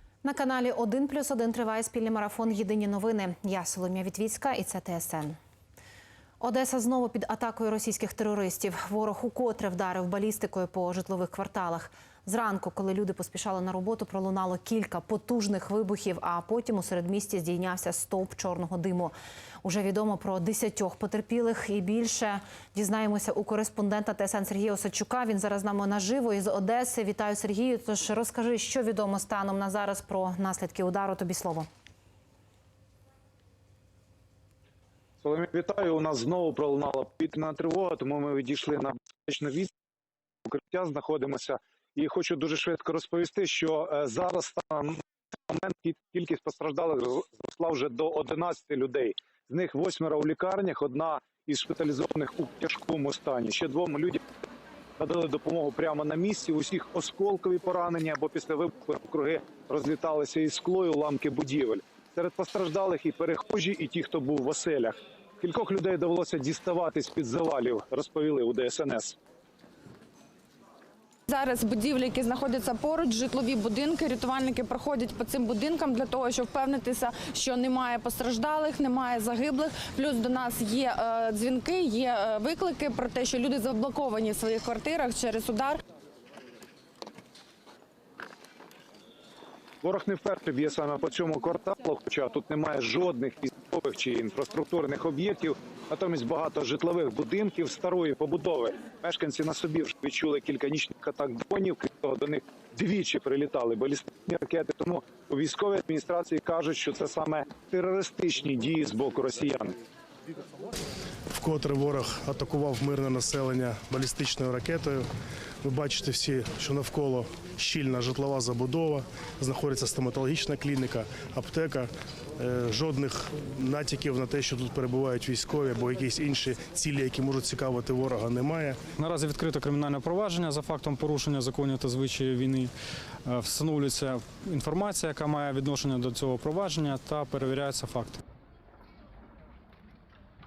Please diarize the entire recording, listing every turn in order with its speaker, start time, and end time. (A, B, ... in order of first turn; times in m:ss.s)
0:00.2-0:05.4 A
0:06.4-0:19.1 A
0:19.6-0:31.7 A
0:35.2-0:39.7 B
0:40.5-0:54.2 B
0:55.0-1:09.2 B
1:11.3-1:25.8 C
1:29.8-1:49.8 B
1:51.4-1:55.1 D
1:55.6-2:08.8 D
2:09.0-2:12.7 E
2:13.2-2:18.2 E